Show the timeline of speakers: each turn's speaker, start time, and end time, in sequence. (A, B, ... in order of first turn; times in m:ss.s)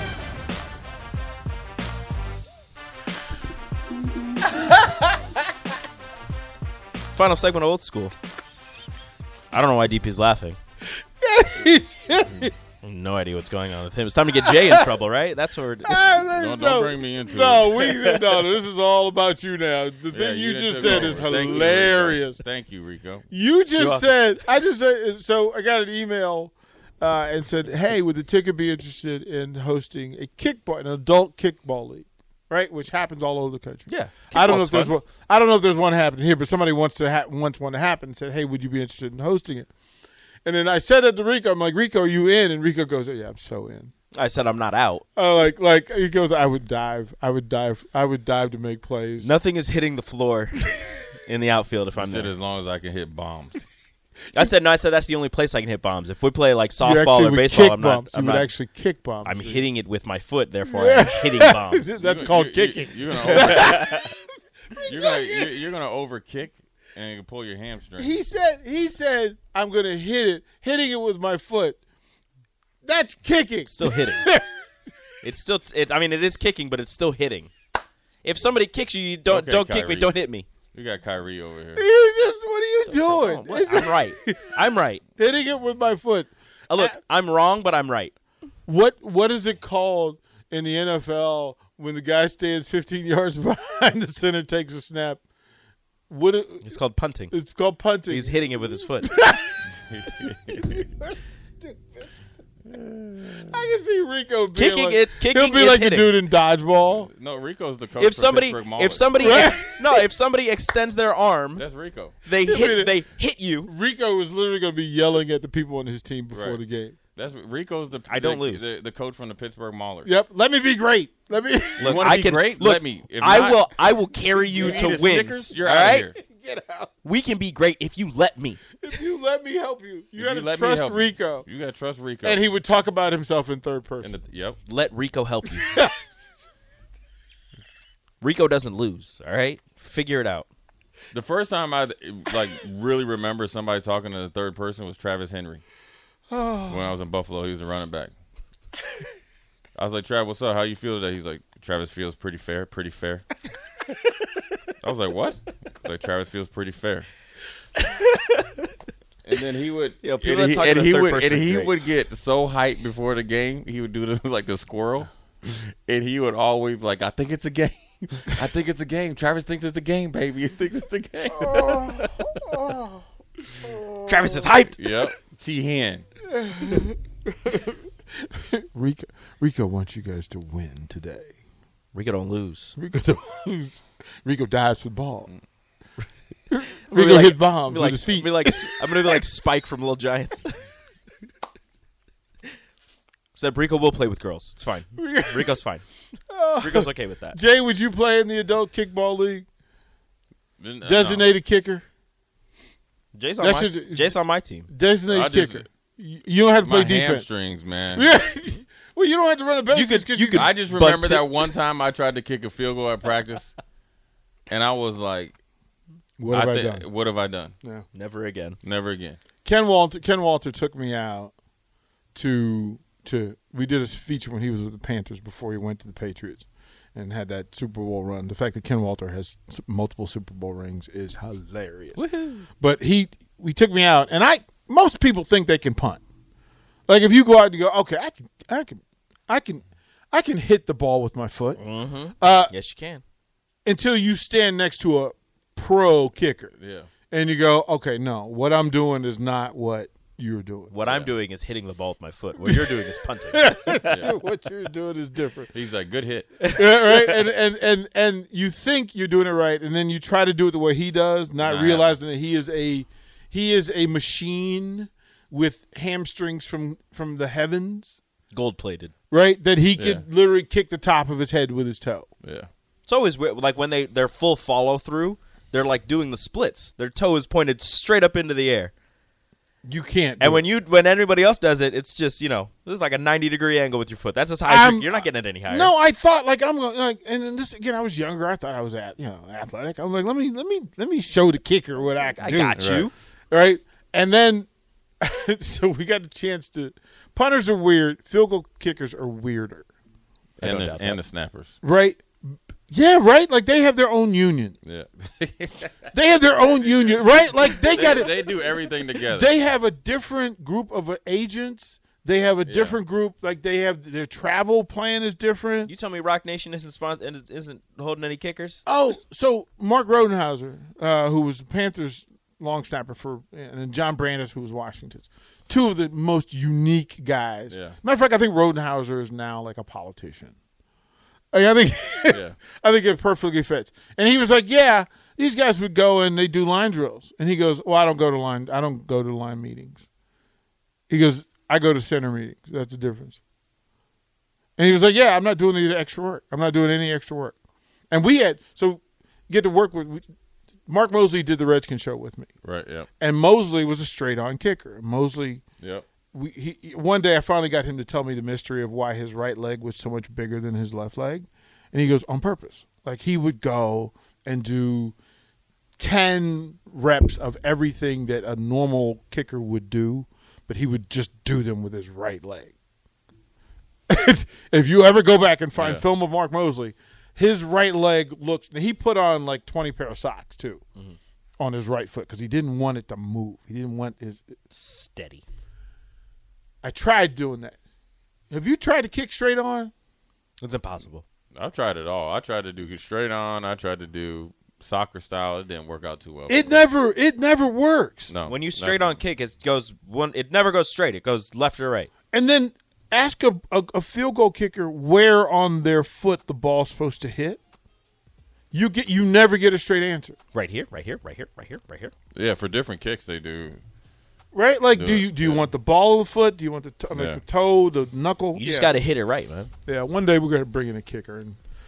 0:04.5-0:05.1 A
0:07.1-0:08.1 B
0:09.5-0:10.6 B
0:11.2-0:12.5 A
0:12.8-0:16.0 B
0:14.3-0:14.9 A
0:15.8-0:22.4 A
0:16.2-0:17.8 C
0:20.1-0:23.2 C
0:20.8-0:21.7 B
0:23.3-0:39.7 A
0:23.8-0:24.1 B
0:33.9-0:35.0 B
0:40.4-0:43.9 A
0:44.1-0:45.0 B
0:45.2-0:49.3 A
0:49.2-0:50.7 B
0:51.2-0:52.3 B
0:52.0-0:53.7 C
0:54.3-0:58.5 B
0:56.8-0:59.7 A
0:59.2-1:02.1 B
1:00.6-1:04.2 A
1:02.0-1:03.9 C
1:03.1-1:04.1 B
1:04.7-1:08.2 C
1:04.8-1:05.5 A
1:08.0-1:11.8 A
1:12.8-1:14.5 A
1:13.6-1:14.3 B
1:15.2-1:17.5 B
1:18.2-1:20.5 B
1:19.3-1:20.2 C
1:20.7-1:21.8 C
1:21.7-1:27.0 A
1:22.8-1:25.0 B
1:26.7-1:28.1 B
1:28.6-1:35.2 A
1:36.1-1:36.8 A
1:36.6-1:37.3 B
1:37.3-1:39.6 A
1:38.1-1:39.2 B
1:39.8-1:40.7 C
1:40.6-1:41.1 A
1:42.7-1:43.6 C
1:43.4-1:47.1 A
1:44.5-1:46.2 B
1:46.9-1:49.6 C
1:48.0-1:51.6 B
1:49.1-1:50.0 A
1:51.6-1:52.1 C
1:52.2-1:53.7 B
1:52.4-1:53.0 A
1:53.6-1:57.0 A
1:56.3-1:56.6 C
1:57.1-2:00.1 C
1:58.1-1:58.7 B
2:00.0-2:01.9 A
2:01.8-2:03.8 C
2:01.8-2:06.1 B
2:03.9-2:05.3 A
2:04.5-2:06.2 C
2:06.0-2:06.9 A
2:07.0-2:08.6 B
2:08.8-2:11.4 A
2:10.2-2:12.4 C
2:12.2-2:14.2 A
2:14.0-2:14.6 C
2:14.6-2:15.7 B
2:15.5-2:16.1 A
2:18.2-2:20.5 B
2:21.1-2:25.6 C
2:26.3-2:26.9 A
2:26.7-2:28.1 C
2:29.7-2:33.2 C
2:34.8-2:37.1 C
2:38.0-2:38.4 B
2:39.2-2:52.2 C
2:40.0-2:41.7 B
2:51.4-2:53.0 A
2:53.6-2:54.5 A
2:54.0-2:54.8 B
2:54.8-2:56.0 C
2:56.3-3:01.3 A
3:01.9-3:02.8 B
3:02.8-3:05.3 A
3:06.5-3:09.2 A
3:06.9-3:10.5 B
3:13.3-3:15.8 B
3:15.0-3:15.6 A
3:16.3-3:19.4 A
3:16.6-3:17.4 B
3:20.6-3:21.3 C
3:20.8-3:21.8 A
3:23.1-3:24.7 B
3:23.4-3:27.3 A
3:25.1-3:25.7 C
3:26.6-3:28.1 C
3:27.9-3:30.5 A
3:29.7-3:31.3 B
3:30.3-3:33.5 C
3:34.5-3:35.3 C
3:36.2-3:36.9 A
3:36.3-3:37.5 C
3:37.9-3:38.6 B
3:38.6-3:39.2 C
3:39.4-3:41.3 A
3:42.1-3:52.0 A
3:52.0-3:52.5 B
3:52.6-3:56.0 A
3:56.9-4:01.6 A
4:01.6-4:03.0 B
4:02.2-4:02.5 A
4:03.6-4:06.5 A
4:06.6-4:06.9 C
4:07.1-4:10.7 A
4:10.7-4:14.0 B
4:10.8-4:11.1 C
4:12.4-4:12.8 A
4:13.3-4:15.5 A
4:13.9-4:14.2 C
4:15.5-4:16.4 C
4:16.5-4:28.0 A
4:16.8-4:17.2 B
4:21.4-4:21.9 C
4:28.3-4:28.9 B
4:29.1-4:32.1 A
4:29.8-4:30.0 C
4:32.2-4:32.5 C
4:32.8-4:38.7 B
4:39.6-4:40.5 A
4:40.2-4:45.7 B
4:44.4-4:52.8 A
4:52.2-4:52.9 B
4:52.6-4:52.9 C
4:53.3-4:54.5 A
4:55.0-4:59.7 A
5:00.4-5:01.0 B
5:00.4-5:01.6 C
5:01.6-5:04.6 A
5:04.6-5:09.3 C
5:05.9-5:15.7 A
5:12.4-5:12.8 C
5:15.6-5:18.6 B
5:18.6-5:30.3 A
5:27.5-5:27.8 C
5:31.3-5:39.8 A
5:32.1-5:32.4 C
5:40.9-5:43.2 A
5:44.6-5:47.4 A
5:47.9-5:50.1 A
5:50.7-5:52.3 A
5:52.4-5:52.9 C
5:53.0-5:55.4 A
5:55.6-5:55.8 C
5:56.1-6:05.0 A
6:05.8-6:12.5 A
6:13.9-6:20.6 A
6:15.5-6:15.8 C
6:21.4-6:24.3 A
6:24.5-6:25.2 B
6:26.6-6:27.6 A
6:28.3-6:29.7 A
6:30.4-6:31.0 B
6:31.3-6:36.6 C
6:36.3-6:38.1 A
6:38.1-6:39.0 C
6:38.2-6:41.9 B
6:42.1-6:47.4 A
6:48.5-6:50.2 A
6:50.3-6:51.9 B
6:52.1-6:53.6 C
6:54.3-6:58.8 A
6:54.7-6:55.5 C
6:56.9-6:57.2 C
6:58.3-6:59.5 B
6:59.6-7:01.4 A